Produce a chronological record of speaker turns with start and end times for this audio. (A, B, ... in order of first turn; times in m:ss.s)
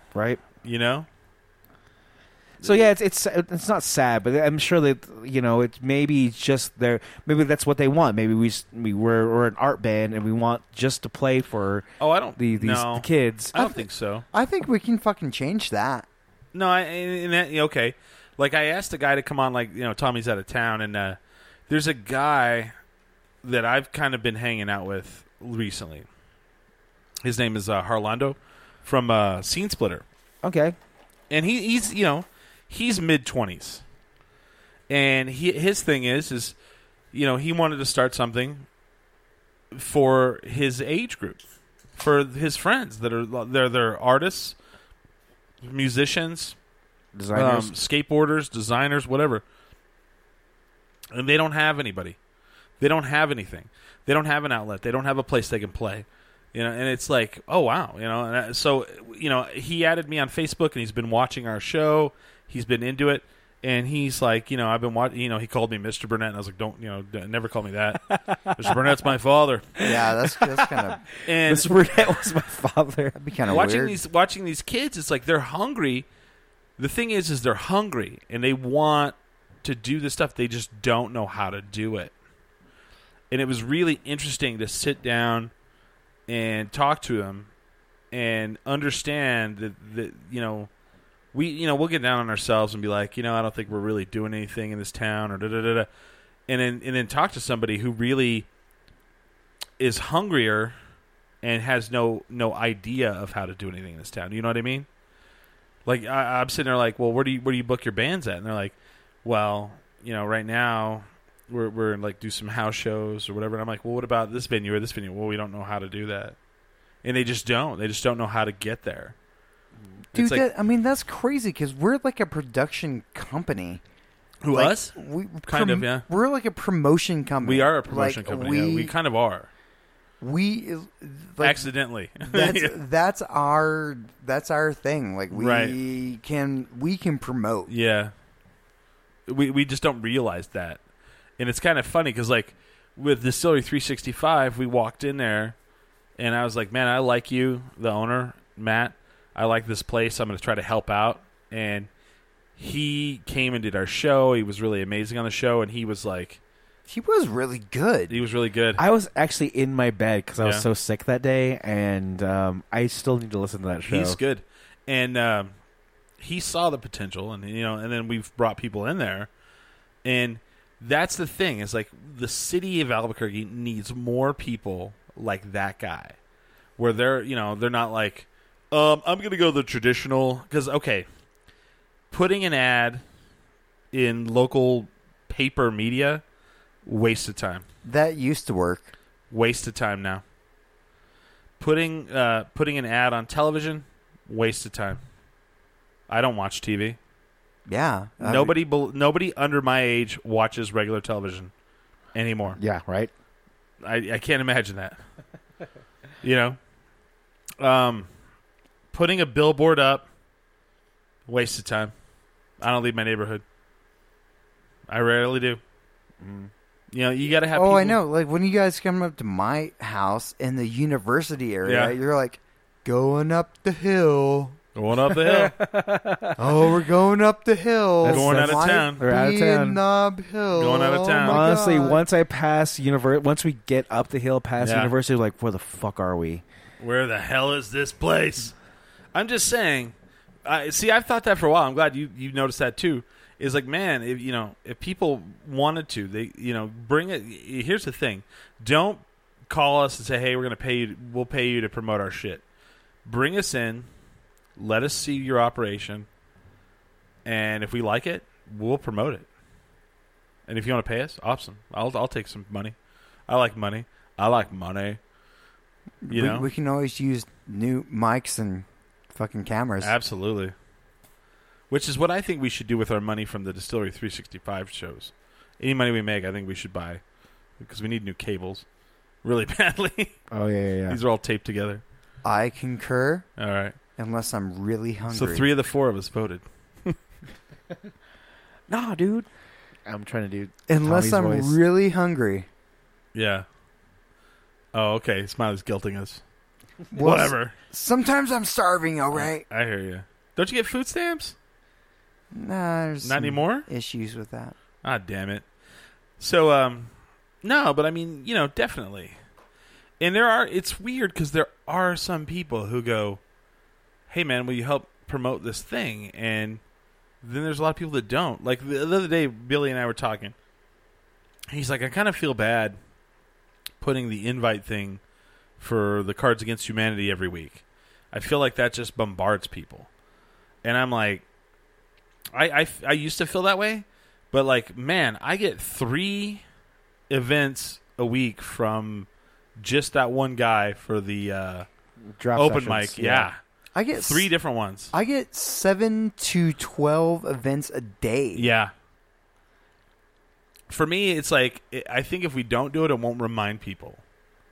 0:00.2-0:00.4 A
0:00.6-0:01.1 B
0:02.6-0:02.9 B
0:02.6-0:13.5 A
0:12.0-0:14.2 B
0:13.6-0:16.1 C
0:16.5-0:21.2 B
0:21.7-0:22.7 B
0:23.4-0:26.1 B
0:27.2-0:30.0 B
0:30.4-0:30.8 A
0:31.3-0:33.8 B
0:34.9-0:36.6 B
0:37.1-0:38.7 B
0:39.7-0:41.4 B
0:42.0-0:44.6 B
0:45.6-0:46.6 B
0:47.2-0:47.7 A
0:47.3-0:49.4 B
0:51.1-0:52.2 B
0:52.8-1:09.7 B
1:08.1-1:09.1 A
1:09.8-1:10.7 A
1:09.8-1:11.0 C
1:11.2-1:11.8 B
1:11.4-1:13.2 A
1:13.2-1:14.0 C
1:13.5-1:16.1 B
1:16.8-1:22.1 B
1:23.3-1:25.5 B
1:26.3-1:27.5 B
1:28.1-1:30.7 B
1:31.3-1:35.9 B
1:36.5-1:38.5 B
1:39.8-1:40.8 B
1:41.4-1:44.9 B
1:45.9-1:56.4 B
1:57.0-1:59.2 B
2:00.1-2:00.4 B
2:00.2-2:03.8 C
2:04.4-2:06.1 B
2:04.5-2:08.9 C
2:07.4-2:09.5 B
2:10.2-2:11.7 C
2:11.4-2:12.7 B
2:12.2-2:17.7 C
2:15.3-2:15.8 B
2:17.7-2:18.1 B
2:19.3-2:20.8 B
2:21.4-2:25.6 B
2:26.2-2:31.9 B
2:32.6-2:36.4 B
2:36.9-2:38.2 C
2:38.1-2:38.8 B
2:38.8-2:44.2 A
2:43.9-2:45.5 B
2:46.2-2:49.3 B
2:50.0-2:56.2 B
2:56.8-3:01.1 B
3:02.1-3:03.0 B
3:03.9-3:06.2 B
3:06.8-3:07.6 B
3:07.8-3:08.9 C
3:09.3-3:10.2 B
3:11.6-3:15.0 B
3:16.1-3:17.0 B
3:17.7-3:18.6 C
3:18.2-3:21.5 B
3:22.1-3:22.6 B
3:22.6-3:23.1 A
3:23.8-3:25.0 B
3:26.2-3:26.6 B
3:27.6-3:28.1 B
3:28.9-3:30.1 B
3:31.3-3:31.9 B
3:32.6-3:33.4 B
3:34.9-3:35.6 B
3:36.2-3:36.5 A
3:36.9-3:38.0 B
3:37.5-3:44.6 C
3:41.6-3:42.0 B
3:44.8-3:45.6 B
3:45.1-3:46.4 A
3:46.4-3:52.0 C
3:48.0-3:49.8 A
3:48.1-3:49.0 B
3:50.6-3:51.5 B
3:51.2-3:56.4 A
3:54.6-3:54.9 B
3:56.8-3:58.5 B
3:59.1-3:59.9 B
4:00.4-4:12.4 B
4:13.0-4:13.9 B
4:14.6-4:16.1 B
4:17.2-4:19.3 B
4:20.5-4:22.8 B
4:23.3-4:25.0 B
4:26.0-4:30.0 C
4:26.1-4:26.5 B
4:29.8-4:30.5 B
4:31.7-4:37.0 B
4:37.6-4:38.6 B
4:39.2-4:40.3 B
4:40.3-4:41.0 A
4:40.9-4:41.8 B
4:42.2-4:43.3 C
4:43.4-4:43.8 B
4:44.0-4:45.5 C
4:45.1-4:47.0 B
4:48.7-4:49.3 A
4:49.9-4:51.6 A
4:50.7-4:52.5 C
4:53.1-4:53.5 B
4:54.7-4:56.2 B
4:56.9-4:59.4 C
4:57.0-4:57.5 B
4:59.1-5:01.4 B
5:02.3-5:04.6 C
5:03.0-5:03.7 B
5:04.8-5:05.4 B
5:06.2-5:06.9 B
5:07.4-5:09.2 B
5:10.0-5:13.2 B
5:14.1-5:16.6 B
5:17.2-5:20.3 B
5:21.5-5:22.8 B
5:23.8-5:25.0 B
5:25.6-5:29.9 B
5:30.6-5:31.2 B
5:32.3-5:36.4 B
5:37.1-5:39.1 B
5:39.6-5:41.7 B
5:42.2-5:43.3 A
5:42.4-5:43.4 B
5:43.8-5:44.3 C
5:43.9-5:44.9 B
5:44.9-5:48.5 C
5:48.4-5:48.7 B
5:50.7-5:54.0 B